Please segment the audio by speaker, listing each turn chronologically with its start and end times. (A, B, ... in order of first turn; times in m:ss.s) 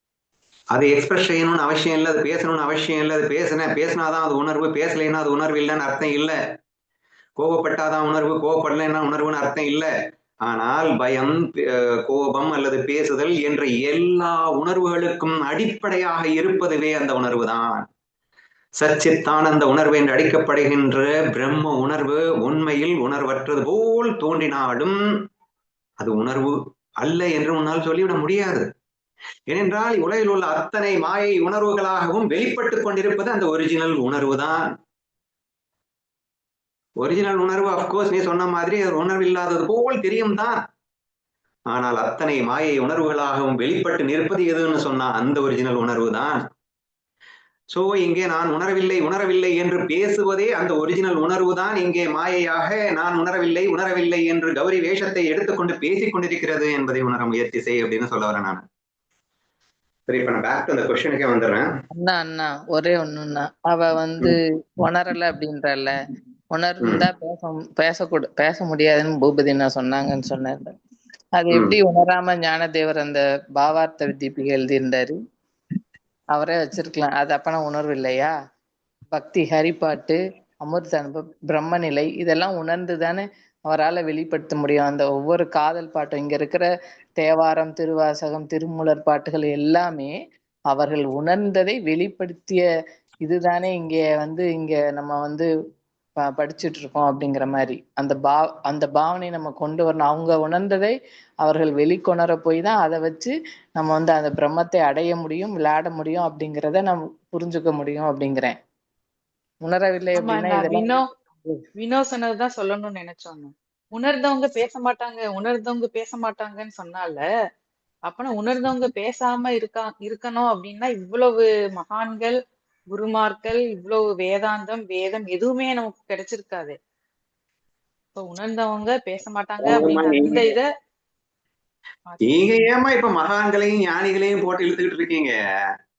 0:00.7-0:06.4 A
0:07.4-0:09.9 A
0:10.5-0:17.8 A
0:18.8-0:25.0 A
0:26.0-0:28.7 A
0:29.5-0:34.6 A
0:37.0-0:40.6 A
0:41.7-0:46.4 A
0:47.7-0:58.6 A
1:00.1-1:01.7 A
1:01.9-1:06.0 B
1:06.6-1:10.8 B
1:11.4-1:15.2 B
1:11.5-1:11.8 A
1:16.3-1:18.3 B
1:19.1-1:26.7 B
1:27.2-1:30.1 B
1:30.7-1:32.6 B
1:33.2-1:35.5 B
1:36.4-1:48.6 B
1:49.6-1:51.5 B
1:50.1-1:51.1 C
1:51.8-1:57.2 C
1:58.1-2:02.4 C
2:02.9-2:06.8 C
2:08.2-2:10.7 C
2:09.6-2:10.6 A
2:12.1-2:12.5 C
2:12.2-2:15.3 A